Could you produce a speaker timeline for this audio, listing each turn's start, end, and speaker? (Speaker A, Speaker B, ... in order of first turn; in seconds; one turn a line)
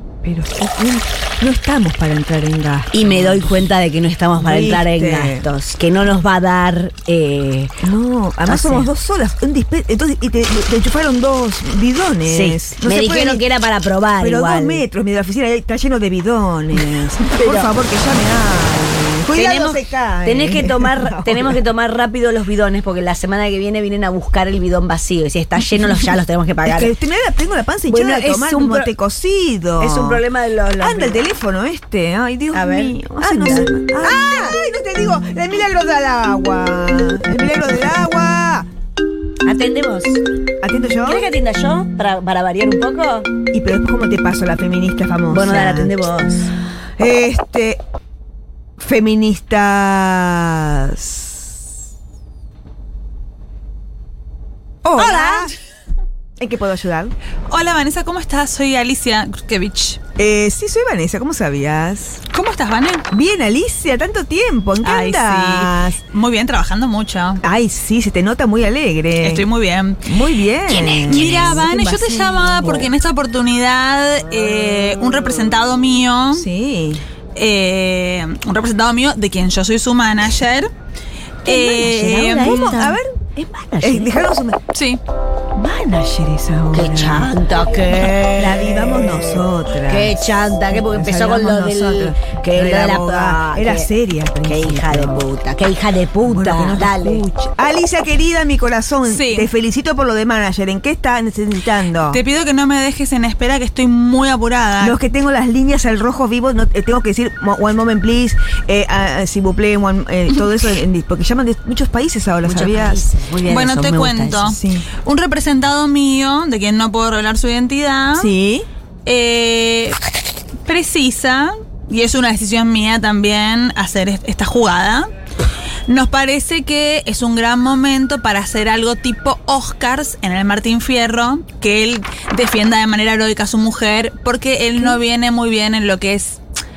Speaker A: 0.2-3.6
Speaker B: 2.9-7.8
Speaker A: 4.3-5.5
Speaker A: 7.8-13.4
Speaker B: 8.5-8.9
Speaker B: 12.2-14.8
Speaker A: 14.2-21.6
Speaker B: 17.3-17.7
Speaker B: 19.3-26.9
Speaker A: 26.7-30.2
Speaker B: 27.9-28.9
Speaker B: 29.8-31.2
Speaker A: 30.8-38.7
Speaker B: 32.5-34.5
Speaker B: 39.4-40.2
Speaker A: 40.6-41.2
Speaker B: 41.0-43.3
Speaker A: 43.5-45.9
Speaker B: 45.3-46.5
Speaker A: 47.0-47.8
Speaker A: 48.8-51.5
Speaker A: 54.8-55.5
Speaker C: 55.0-55.5
Speaker A: 56.4-57.1
Speaker C: 57.5-60.0
Speaker A: 60.2-62.2
Speaker C: 62.3-63.0
Speaker A: 63.1-66.0
Speaker C: 64.8-67.4
Speaker A: 67.4-69.5
Speaker C: 69.2-70.1
Speaker A: 70.0-72.8
Speaker C: 70.7-76.5
Speaker B: 70.8-72.8
Speaker A: 76.3-77.0
Speaker C: 77.3-80.7
Speaker C: 81.4-82.8
Speaker B: 81.4-84.3
Speaker A: 82.2-83.2
Speaker A: 83.8-84.6
Speaker C: 84.7-85.0
Speaker A: 85.5-87.4
Speaker B: 86.7-93.9
Speaker A: 88.0-95.2
Speaker B: 94.4-97.2
Speaker A: 96.2-102.2
Speaker C: 99.0-99.5
Speaker C: 102.0-105.0
Speaker A: 104.8-113.0
Speaker C: 110.3-110.6
Speaker B: 112.4-114.5
Speaker C: 113.4-118.3
Speaker A: 114.5-114.9
Speaker A: 118.2-118.7
Speaker C: 119.0-120.0
Speaker C: 120.6-125.1
Speaker C: 125.9-136.4